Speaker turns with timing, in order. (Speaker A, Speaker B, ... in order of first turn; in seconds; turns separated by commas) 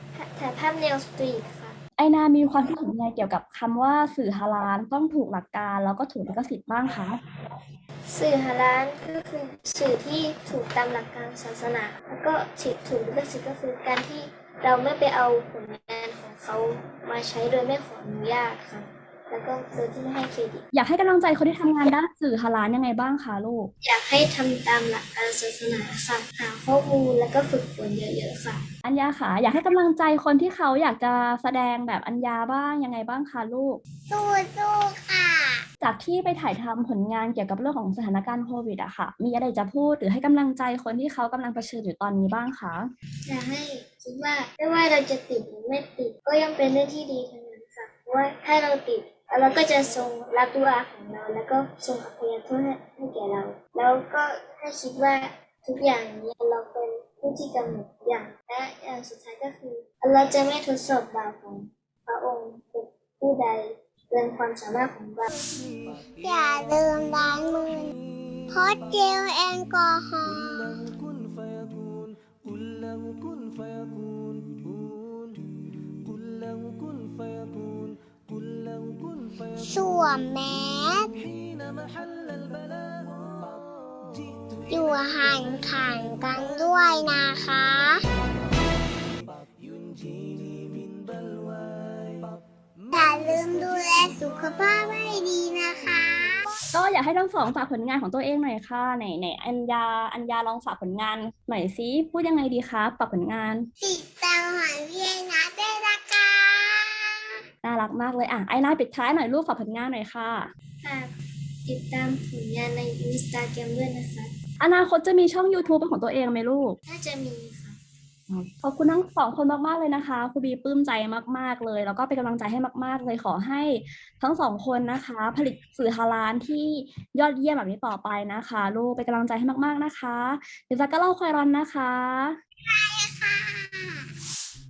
Speaker A: 0.1-1.8, Speaker B: 2.0-7.2, Speaker A: 8.1-20.7, Speaker B: 20.7-23.7, Speaker A: 23.8-28.6, Speaker B: 28.8-33.8, Speaker C: 34.1-35.6, Speaker B: 35.8-42.9, Speaker A: 43.3-65.3, Speaker C: 66.1-67.9, Speaker C: 68.5-71.0, Speaker C: 79.5-81.3, Speaker C: 84.7-88.0, Speaker C: 92.9-96.5, Speaker B: 96.7-103.7, Speaker C: 103.8-107.1, Speaker B: 107.6-110.5, Speaker A: 110.8-111.1, Speaker A: 111.7-114.3, Speaker B: 114.6-116.8, Speaker A: 116.9-117.8, Speaker B: 118.3-132.4, Speaker C: 132.7-134.1